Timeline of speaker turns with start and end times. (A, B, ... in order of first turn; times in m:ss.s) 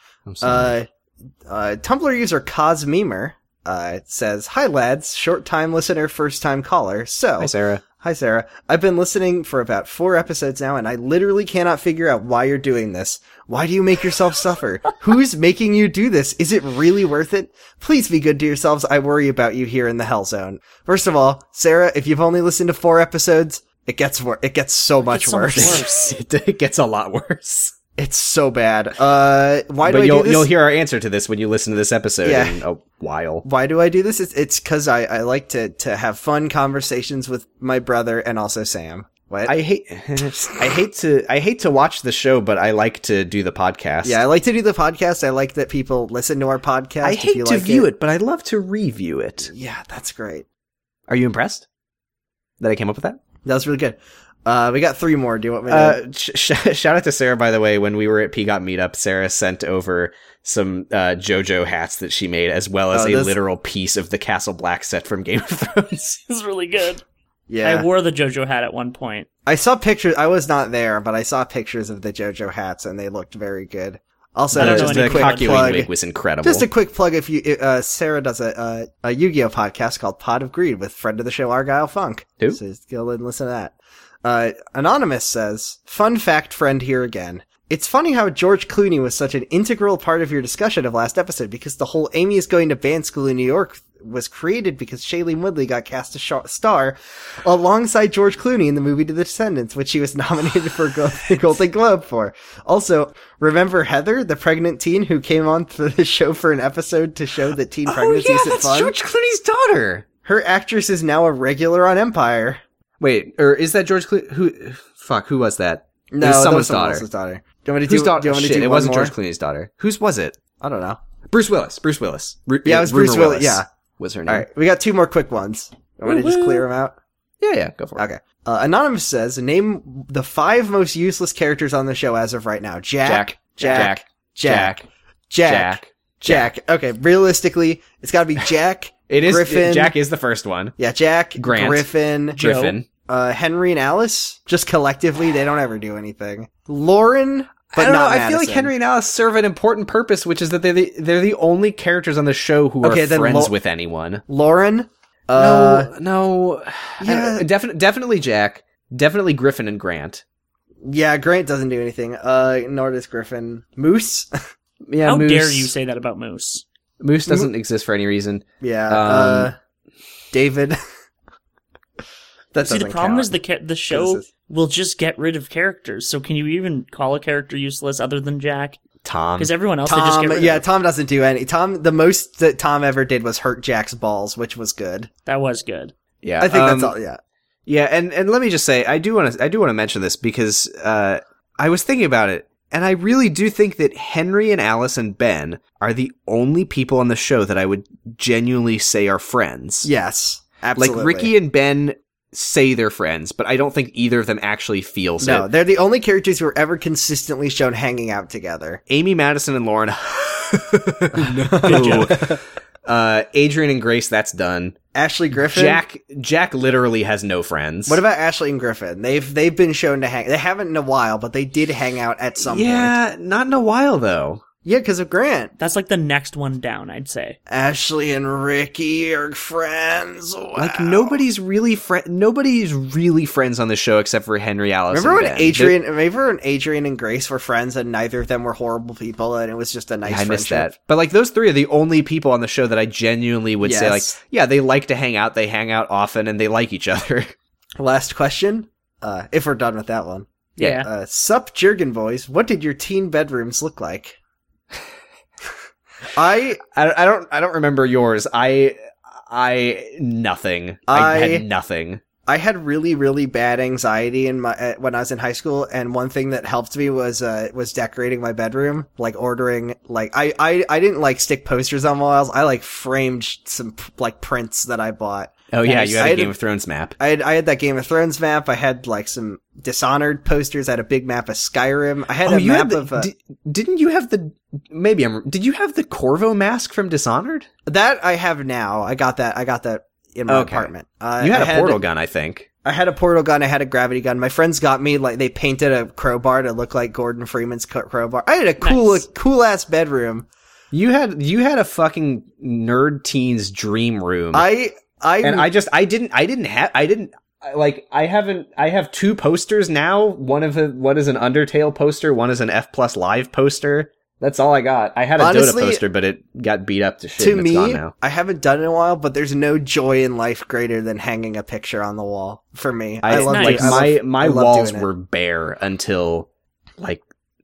0:00.3-0:00.7 A
0:00.4-0:00.9 B
0:01.5-0:25.8 B
0:07.4-0:07.8 A
0:25.1-0:26.1 C
0:25.6-0:27.7 A
0:28.0-0:30.5 B
0:29.8-0:33.4 A
0:32.2-0:32.6 B
0:33.4-0:39.6 B
0:39.4-0:44.2 A
0:44.0-0:47.9 B
0:47.0-0:49.5 A
0:49.4-0:50.4 B
0:51.1-0:51.6 A
0:52.6-0:53.2 A
0:53.4-0:56.0 B
0:55.7-1:06.2 A
1:02.9-1:03.3 B
1:06.3-1:07.0 C
1:07.5-1:07.9 B
1:07.6-1:09.3 C
1:09.4-1:15.9 B
1:14.5-1:16.7 A
1:14.5-1:15.8 C
1:16.4-1:49.0 B
1:47.9-1:50.1 A
1:50.2-1:52.6 B
1:53.0-1:57.0 A
1:56.1-1:59.1 B
1:57.9-2:00.4 A
2:00.6-2:01.0 B
2:01.3-2:04.4 A
2:02.6-2:03.7 B
2:04.3-2:07.0 B
2:06.0-2:06.6 C
2:07.4-2:08.0 A
2:08.0-2:14.8 B
2:13.0-2:14.9 A
2:15.3-2:19.9 B
2:15.4-2:16.5 A
2:19.1-2:20.7 A
2:20.8-2:22.4 B
2:21.4-2:22.9 A
2:22.4-2:22.8 C
2:23.0-2:28.7 B
2:27.7-2:34.2 A
2:32.8-2:33.5 B
2:34.3-2:35.9 B
2:35.3-2:40.2 A
2:37.0-2:37.4 B
2:40.8-2:44.3 B
2:44.8-2:45.7 A
2:45.0-2:46.6 C
2:47.0-2:49.5 A
2:47.2-2:47.5 B
2:48.6-2:49.6 B
2:50.3-2:50.8 B
2:52.5-2:53.3 B
2:52.6-2:58.8 C
2:53.9-2:54.3 B
2:59.0-2:59.5 A
2:59.4-3:00.6 C
2:59.8-3:05.1 B
3:05.2-3:05.9 C
3:06.2-3:06.9 A
3:06.4-3:07.2 B
3:07.7-3:19.9 A
3:19.8-3:21.3 B
3:20.8-3:25.5 A
3:25.2-3:28.8 B
3:28.9-3:34.8 A
3:31.1-3:32.4 B
3:31.6-3:32.2 C
3:34.9-3:35.8 B
3:35.4-3:38.0 A
3:37.9-3:42.9 B
3:42.4-3:44.4 A
3:44.6-3:45.5 B
3:45.6-3:47.4 C
3:47.5-3:51.2 B
3:50.6-3:55.7 A
3:54.9-4:00.7 B
4:00.0-4:07.3 A
4:03.6-4:04.1 B
4:07.8-4:14.2 B
4:10.6-4:10.9 C
4:10.6-4:10.8 A
4:16.1-4:16.6 B
4:16.7-4:18.8 A
4:19.3-4:22.0 A
4:20.9-4:21.4 B
4:22.2-4:36.3 B
4:35.5-4:37.0 A
4:35.6-4:36.0 C
4:37.0-4:43.1 B
4:42.2-4:47.5 A
4:47.6-4:51.8 B
4:50.3-4:52.5 A
4:52.6-5:00.3 B
4:58.6-4:59.0 C
5:00.7-5:04.5 A
5:04.3-5:05.5 B
5:05.2-5:17.9 A
5:15.2-5:15.8 B
5:17.2-5:24.9 B
5:23.0-5:26.3 A
5:23.2-5:23.8 C